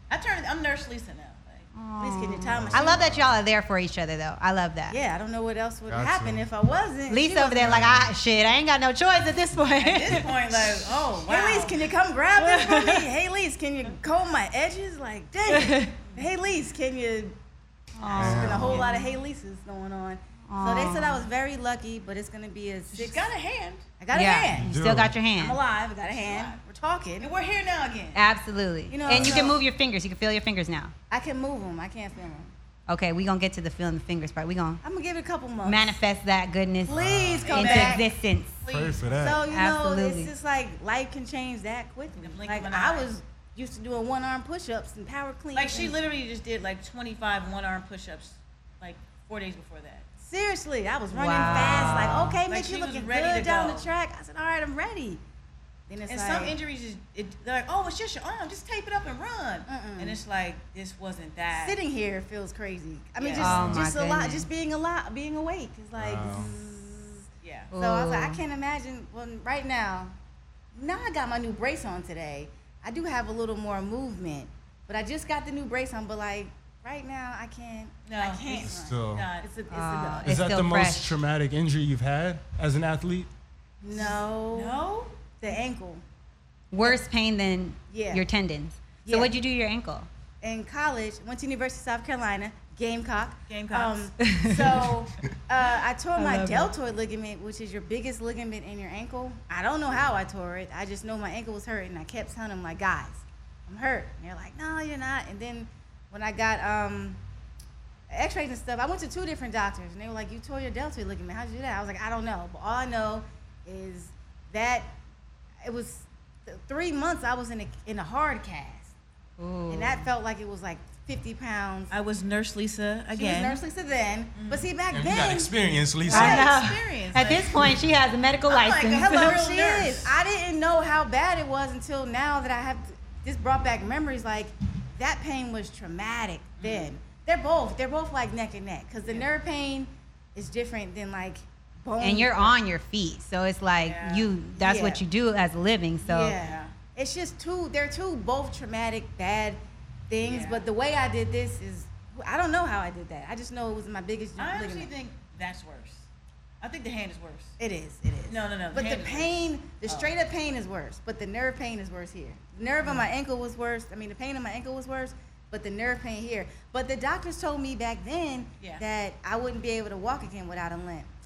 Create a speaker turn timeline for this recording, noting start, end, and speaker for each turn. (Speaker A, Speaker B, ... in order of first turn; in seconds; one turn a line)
Speaker A: 0.1-1.7
Speaker B: 1.7-5.0
Speaker C: 2.0-3.0
Speaker D: 2.5-3.4
Speaker C: 4.9-7.8
Speaker D: 5.9-6.4
Speaker B: 7.1-10.3
Speaker D: 7.6-8.1
Speaker A: 9.8-11.8
Speaker C: 11.2-17.3
Speaker B: 12.4-13.1
Speaker B: 15.5-15.9
Speaker B: 18.0-18.9
Speaker C: 18.1-23.2
Speaker D: 18.1-18.9
Speaker A: 18.6-18.9
Speaker B: 20.5-21.2
Speaker A: 22.9-23.9
Speaker C: 24.0-24.7
Speaker B: 24.1-25.6
Speaker D: 24.6-25.1
Speaker C: 25.4-27.3
Speaker A: 26.0-26.6
Speaker A: 27.2-28.2
Speaker B: 28.1-30.9
Speaker C: 28.9-29.6
Speaker D: 29.1-29.5
Speaker C: 31.1-32.5
Speaker B: 32.9-34.8
Speaker C: 34.8-36.0
Speaker B: 35.6-38.5
Speaker D: 36.9-37.5
Speaker C: 36.9-38.1
Speaker A: 37.4-38.1
Speaker A: 38.6-39.2
Speaker D: 38.7-39.4
Speaker C: 39.2-45.9
Speaker B: 39.5-40.3
Speaker A: 42.1-43.1
Speaker A: 45.5-50.0
Speaker C: 50.2-55.2
Speaker B: 51.1-52.4
Speaker A: 51.6-53.9
Speaker C: 55.9-56.5
Speaker A: 56.1-61.8
Speaker C: 59.7-60.2
Speaker C: 61.5-70.1
Speaker A: 63.2-63.6
Speaker B: 63.4-64.5
Speaker D: 63.5-63.9
Speaker D: 66.0-66.5
Speaker A: 67.4-67.7
Speaker B: 67.7-68.4
Speaker C: 70.7-80.4
Speaker A: 78.1-79.5
Speaker D: 78.6-79.3
Speaker B: 79.7-81.2
Speaker D: 80.2-83.3
Speaker C: 83.8-84.8
Speaker A: 83.9-85.1
Speaker C: 85.4-86.0
Speaker B: 86.7-90.1
Speaker C: 87.9-88.2
Speaker C: 89.0-89.3
Speaker C: 90.4-107.2
Speaker A: 93.5-94.9
Speaker B: 94.2-94.8
Speaker B: 96.2-96.7
Speaker C: 108.1-115.0
Speaker C: 115.6-118.9
Speaker B: 119.4-120.0
Speaker C: 119.7-121.9
Speaker A: 121.9-123.6
Speaker C: 123.1-125.5
Speaker A: 124.3-124.7
Speaker D: 124.9-126.5
Speaker A: 126.0-127.8
Speaker B: 126.1-129.4
Speaker C: 126.1-126.5
Speaker A: 128.5-130.1
Speaker C: 129.0-142.5
Speaker A: 136.6-136.9
Speaker B: 142.0-146.3
Speaker A: 143.8-144.3
Speaker C: 144.5-145.0
Speaker C: 146.0-154.9
Speaker A: 146.4-146.7
Speaker A: 150.2-150.6
Speaker A: 154.4-156.1
Speaker A: 156.6-157.5
Speaker C: 157.6-171.1
Speaker A: 158.3-159.3
Speaker A: 159.8-160.1